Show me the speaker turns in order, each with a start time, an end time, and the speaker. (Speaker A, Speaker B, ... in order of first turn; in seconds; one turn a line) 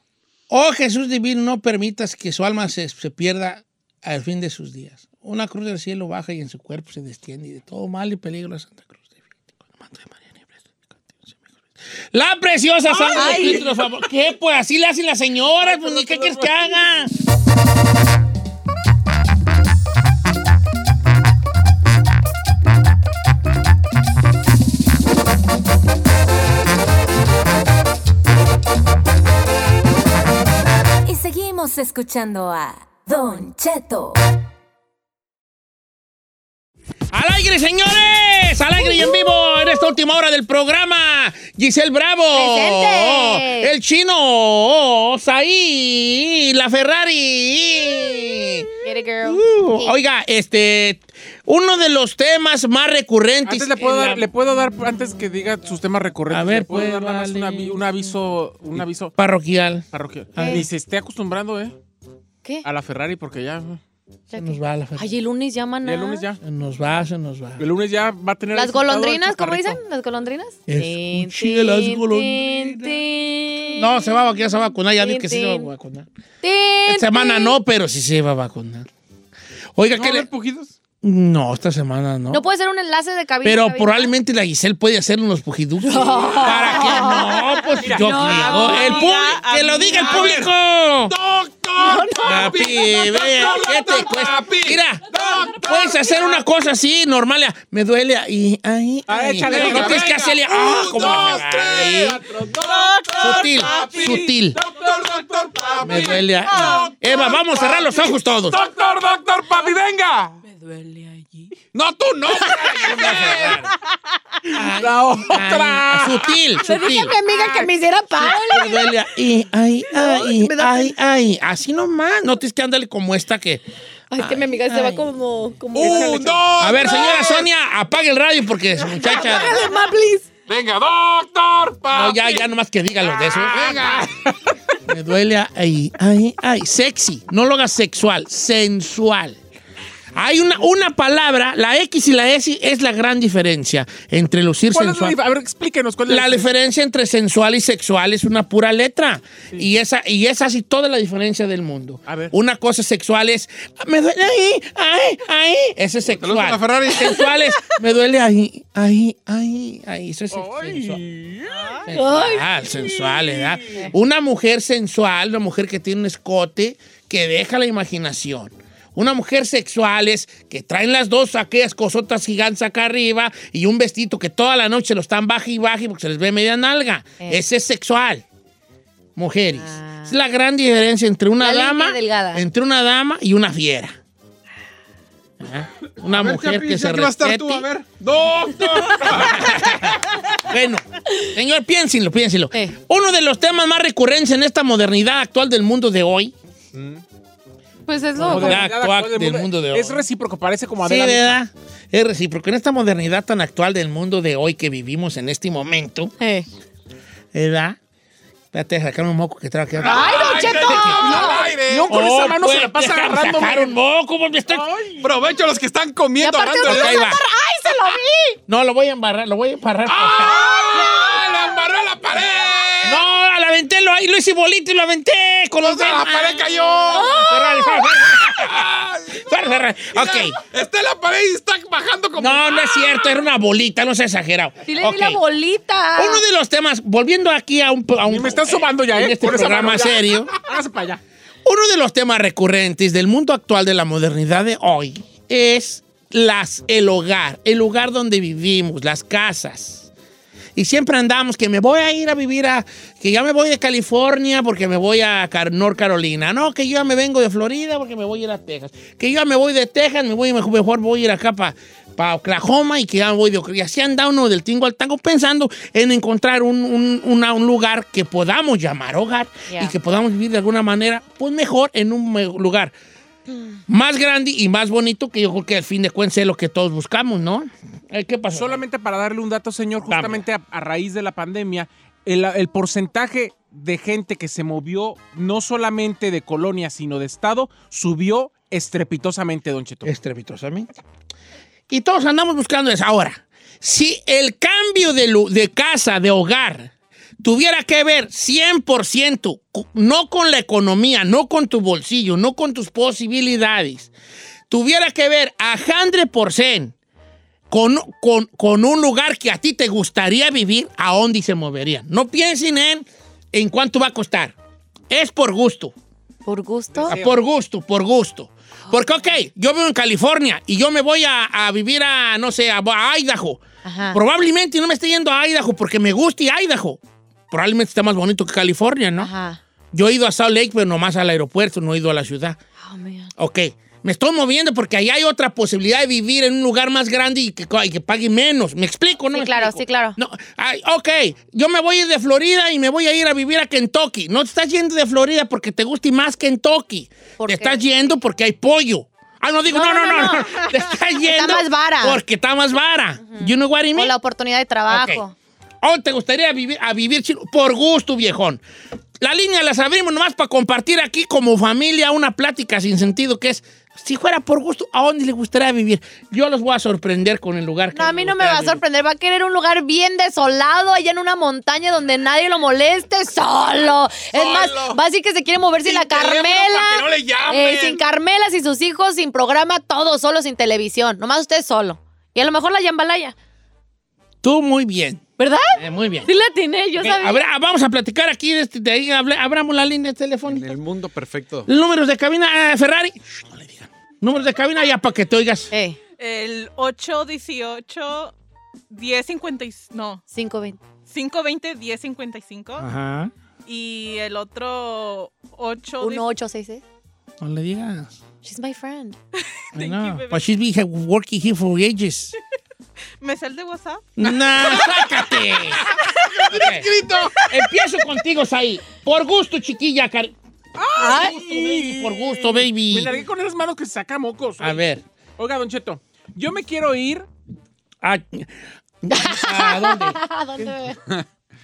Speaker A: 0.5-11.4
Speaker A: 12.1-17.1
Speaker B: 12.9-13.8
Speaker C: 13.1-13.6
Speaker B: 15.6-16.6
Speaker D: 31.0-34.2
Speaker A: 37.1-48.7
Speaker C: 42.3-43.7
Speaker C: 48.8-49.9
Speaker A: 49.2-54.3
Speaker B: 53.5-59.1
Speaker A: 56.3-57.8
Speaker A: 58.8-60.6
Speaker B: 59.9-61.7
Speaker C: 60.4-60.6
Speaker B: 62.6-63.8
Speaker C: 64.3-66.2
Speaker A: 64.3-65.2
Speaker B: 65.8-66.4
Speaker A: 66.4-67.6
Speaker B: 67.6-69.8
Speaker C: 68.5-74.1
Speaker A: 70.7-73.0
Speaker A: 73.7-76.1
Speaker C: 75.0-75.7
Speaker C: 76.4-77.6
Speaker A: 76.8-78.9
Speaker A: 79.8-80.3
Speaker E: 79.9-80.7
Speaker A: 81.0-82.4
Speaker C: 82.3-84.1
Speaker A: 83.4-91.1
Speaker C: 85.8-89.3
Speaker B: 87.8-88.8
Speaker F: 88.2-90.2
Speaker E: 90.0-90.5
Speaker E: 91.1-95.8
Speaker C: 91.8-92.2
Speaker A: 92.2-102.2
Speaker B: 99.1-100.4
Speaker E: 99.5-110.4
Speaker B: 100.9-101.2
Speaker B: 102.3-102.6
Speaker F: 102.7-104.0
Speaker A: 103.2-104.6
Speaker A: 105.8-108.6
Speaker E: 111.7-113.7
Speaker A: 112.8-113.7
Speaker A: 114.5-117.1
Speaker B: 114.6-116.4
Speaker C: 116.6-118.9
Speaker A: 118.2-123.6
Speaker C: 119.9-120.9
Speaker C: 124.1-126.4
Speaker A: 124.2-125.0
Speaker E: 125.7-127.5
Speaker A: 125.8-126.1
Speaker A: 126.6-129.6
Speaker C: 128.9-130.2
Speaker E: 130.5-132.4
Speaker A: 131.9-133.9
Speaker E: 133.3-134.1
Speaker A: 134.9-139.4
Speaker A: 140.1-145.2
Speaker B: 144.7-146.5
Speaker A: 146.1-161.0
Speaker B: 152.1-152.3
Speaker E: 156.1-157.2
Speaker B: 160.3-161.8
Speaker A: 161.9-178.2
Speaker C: 161.9-162.4
Speaker B: 162.7-163.8
Speaker A: 179.2-184.0
Speaker C: 179.6-180.2
Speaker C: 181.4-182.4
Speaker A: 185.4-187.7
Speaker E: 186.0-189.9
Speaker A: 189.0-196.3
Speaker B: 196.7-197.0
Speaker C: 197.9-198.6
Speaker A: 198.2-200.0
Speaker B: 198.2-201.3
Speaker A: 200.8-206.1
Speaker C: 206.2-206.5
Speaker A: 207.3-207.8
Speaker A: 208.5-211.3
Speaker E: 209.8-211.9
Speaker C: 209.8-211.5
Speaker B: 211.0-213.7
Speaker A: 211.9-214.7
Speaker B: 214.5-215.1
Speaker E: 215.0-217.0
Speaker C: 216.2-218.4
Speaker A: 216.6-217.2
Speaker A: 218.5-220.6
Speaker E: 219.8-223.0
Speaker A: 222.8-230.3
Speaker E: 225.6-227.3
Speaker C: 226.9-227.8
Speaker E: 228.0-229.4
Speaker E: 229.9-233.1
Speaker A: 232.2-235.2
Speaker C: 234.7-236.2
Speaker A: 235.9-240.3
Speaker B: 238.1-241.0
Speaker A: 241.4-249.9
Speaker A: 250.5-272.7
Speaker C: 269.5-269.7
Speaker A: 273.7-278.6
Speaker B: 278.3-289.9
Speaker A: 279.8-280.2
Speaker A: 289.8-290.7
Speaker A: 291.7-303.9
Speaker A: 304.5-306.7
Speaker A: 307.5-314.3
Speaker A: 314.9-315.7
Speaker C: 316.2-316.9
Speaker B: 316.7-317.2
Speaker A: 316.9-329.1
Speaker C: 318.7-319.1
Speaker C: 323.6-324.0
Speaker C: 329.0-329.4
Speaker A: 329.7-332.4
Speaker C: 332.6-333.1
Speaker A: 333.2-353.9
Speaker C: 339.1-340.0
Speaker C: 347.2-347.6
Speaker C: 349.5-352.0
Speaker C: 353.1-355.1
Speaker A: 354.7-355.0
Speaker A: 355.6-358.4
Speaker A: 359.0-368.6
Speaker C: 367.7-383.1
Speaker E: 374.0-374.8
Speaker E: 375.6-377.8
Speaker A: 384.2-385.0
Speaker C: 385.2-387.2
Speaker A: 385.6-386.1
Speaker A: 386.8-390.5
Speaker E: 390.3-391.5
Speaker A: 391.4-395.5
Speaker C: 395.5-395.8
Speaker F: 396.0-398.1
Speaker F: 398.7-400.0
Speaker C: 400.1-400.6
Speaker F: 400.9-402.7
Speaker A: 402.6-403.1
Speaker F: 403.4-406.1
Speaker C: 405.8-406.6
Speaker A: 407.2-407.9
Speaker C: 408.2-409.0
Speaker F: 409.2-410.3
Speaker A: 409.5-412.1
Speaker F: 413.0-413.9
Speaker A: 414.0-415.6
Speaker E: 414.3-417.1
Speaker A: 416.3-416.7
Speaker A: 417.3-420.1
Speaker B: 420.6-424.6
Speaker C: 420.8-421.1
Speaker A: 420.9-422.9
Speaker A: 424.4-424.8
Speaker B: 425.2-427.1
Speaker A: 427.8-430.0
Speaker C: 428.9-430.8